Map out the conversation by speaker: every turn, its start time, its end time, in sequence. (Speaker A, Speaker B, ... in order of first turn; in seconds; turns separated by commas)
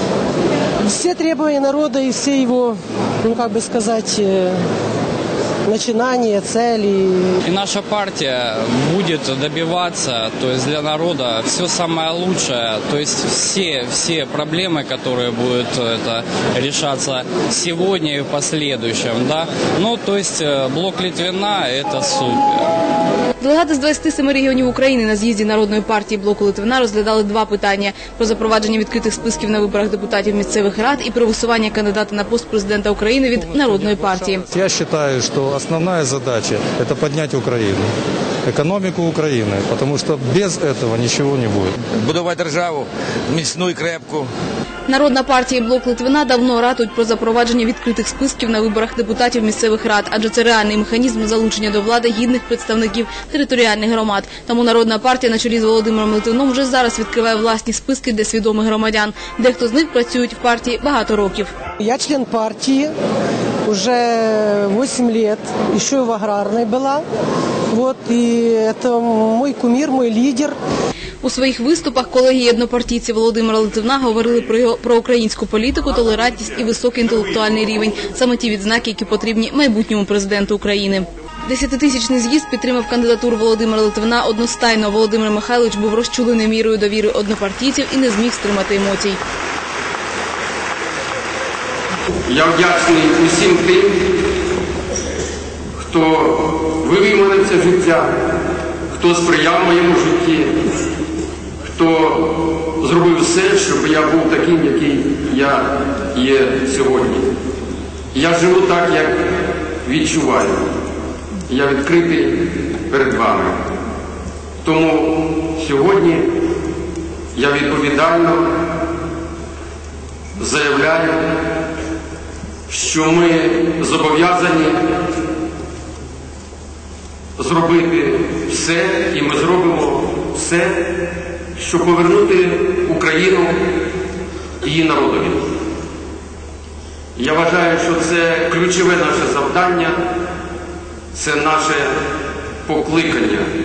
Speaker A: 0.8-4.6, Speaker A: 5.7-7.4, Speaker B: 7.4-22.6, Speaker C: 23.4-34.4, Speaker D: 33.3-37.9, Speaker D: 38.4-41.8, Speaker E: 42.0-44.3, Speaker C: 44.9-61.5, Speaker A: 61.8-62.9, Speaker A: 63.6-67.0, Speaker A: 67.7-70.5, Speaker C: 71.2-89.2, Speaker F: 92.3-94.1, Speaker F: 95.9-98.2, Speaker F: 99.0-100.5, Speaker F: 101.8-107.3, Speaker F: 108.1-110.7, Speaker F: 111.5-113.6, Speaker F: 114.6-116.3, Speaker F: 117.3-118.5, Speaker F: 120.4-121.3, Speaker F: 122.7-124.8, Speaker F: 127.4-130.9, Speaker F: 131.6-133.6, Speaker F: 134.6-135.4, Speaker F: 137.2-140.0, Speaker F: 141.1-141.9, Speaker F: 142.7-143.5